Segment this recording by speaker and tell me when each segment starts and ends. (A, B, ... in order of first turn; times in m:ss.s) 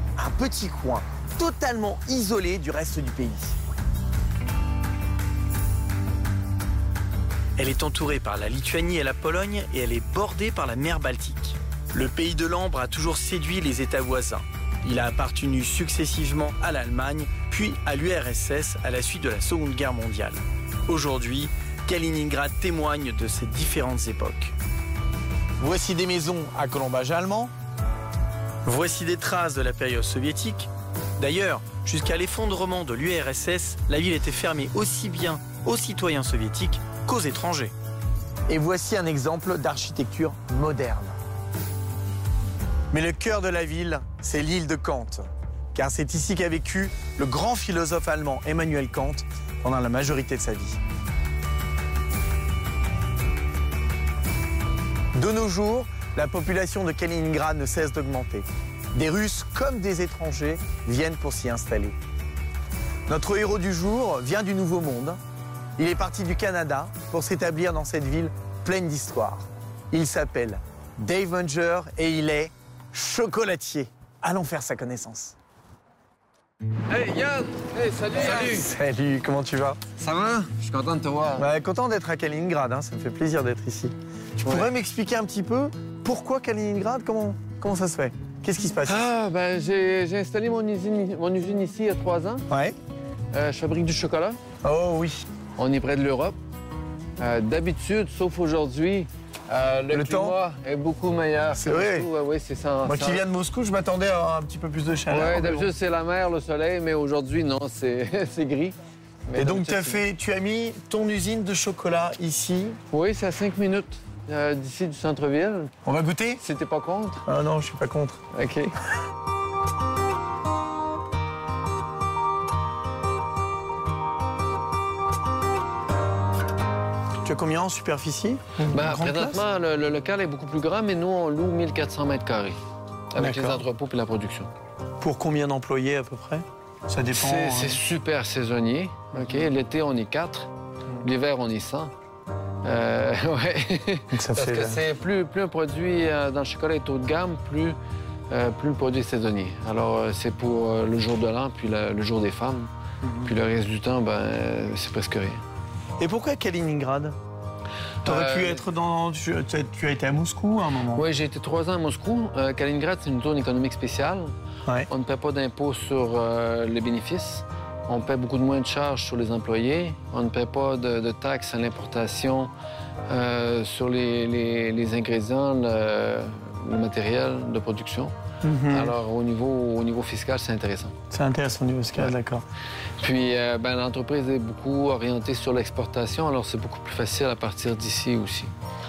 0:00.2-0:03.6 A
0:07.6-0:24.6 A
0:25.6-0:27.5 A
0:28.6-0:37.7 A
0:38.5-0:41.2 A
0:42.9-0:50.8 A
0:55.2-1:02.0 A
1:03.1-1:05.2 A
1:05.8-1:15.4 A
1:16.9-1:18.7 B
1:18.2-1:19.8 A
1:20.0-1:21.5 B
1:21.4-1:29.1 A
1:24.4-1:24.7 B
1:28.9-1:32.4 B
1:32.5-1:32.8 A
1:33.3-1:34.4 B
1:34.6-1:35.2 A
1:35.6-1:36.4 B
1:37.2-1:43.2 B
1:39.9-1:40.4 A
1:41.5-1:42.1 A
1:42.8-1:45.7 A
1:45.1-1:50.1 B
1:49.4-1:52.8 A
1:52.9-1:55.7 B
1:55.8-1:56.4 A
1:56.4-1:57.2 B
1:57.3-1:58.2 A
1:58.3-1:58.8 B
2:07.2-2:09.4 A
2:08.7-2:12.6 B
2:13.1-2:14.5 B
2:13.2-2:13.6 A
2:15.0-2:17.8 A
2:17.1-2:20.5 B
2:19.2-2:19.5 A
2:21.0-2:21.9 B
2:22.6-2:27.8 B
2:24.1-2:24.8 A
2:28.3-2:32.7 B
2:33.0-2:33.3 A
2:33.2-2:35.4 B
2:36.0-2:37.2 A
2:38.0-2:38.6 B
2:38.0-2:41.0 A
2:41.0-2:44.3 B
2:44.9-2:52.5 B
2:53.1-2:58.1 B
2:58.4-2:59.0 A
2:58.7-3:00.9 B
3:01.1-3:02.4 A
3:03.0-3:08.5 B